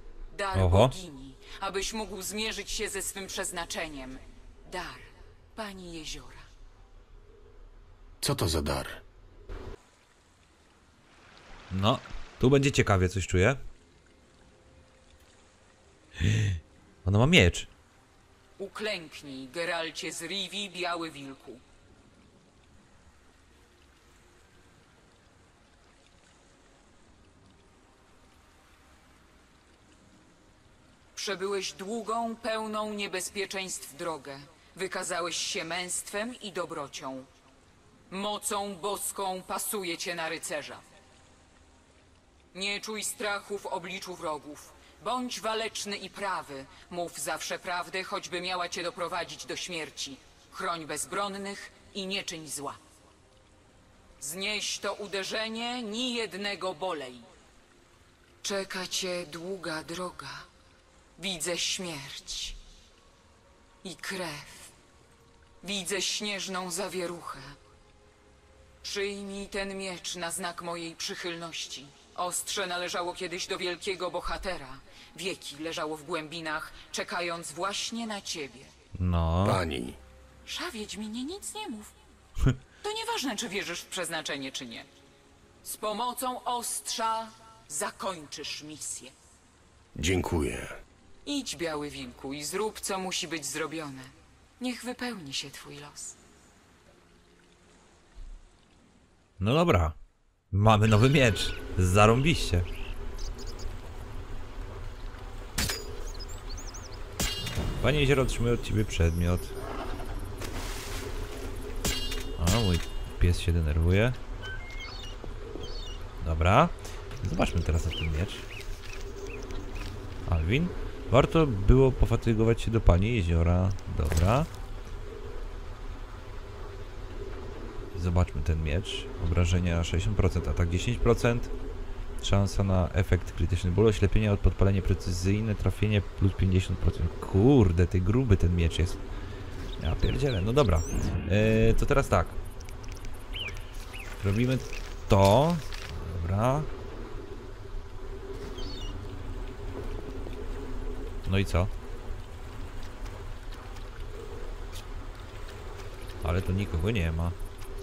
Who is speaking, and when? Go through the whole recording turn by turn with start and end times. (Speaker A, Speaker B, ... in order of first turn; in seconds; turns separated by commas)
Speaker A: 0.3-6.5, Speaker B: 0.5-1.0, Speaker C: 8.2-9.0, Speaker B: 11.7-13.6, Speaker B: 16.2-17.7, Speaker A: 18.6-21.6, Speaker A: 31.1-37.3, Speaker A: 38.1-40.8, Speaker A: 42.5-52.8, Speaker A: 54.2-57.3, Speaker A: 58.4-60.4, Speaker A: 61.2-62.6, Speaker A: 63.8-64.7, Speaker A: 65.6-67.5, Speaker A: 68.8-78.7, Speaker B: 79.0-79.6, Speaker C: 79.4-80.0, Speaker A: 80.5-81.9, Speaker A: 82.8-84.9, Speaker A: 85.6-89.1, Speaker C: 90.0-90.7, Speaker A: 91.3-96.2, Speaker B: 99.4-100.0, Speaker B: 100.5-102.7, Speaker B: 107.8-109.5, Speaker B: 112.4-114.2, Speaker B: 116.2-118.5, Speaker B: 120.3-124.5, Speaker B: 127.9-131.5, Speaker B: 132.2-139.0, Speaker B: 139.8-142.4, Speaker B: 144.2-146.7, Speaker B: 151.2-151.7, Speaker B: 156.2-157.4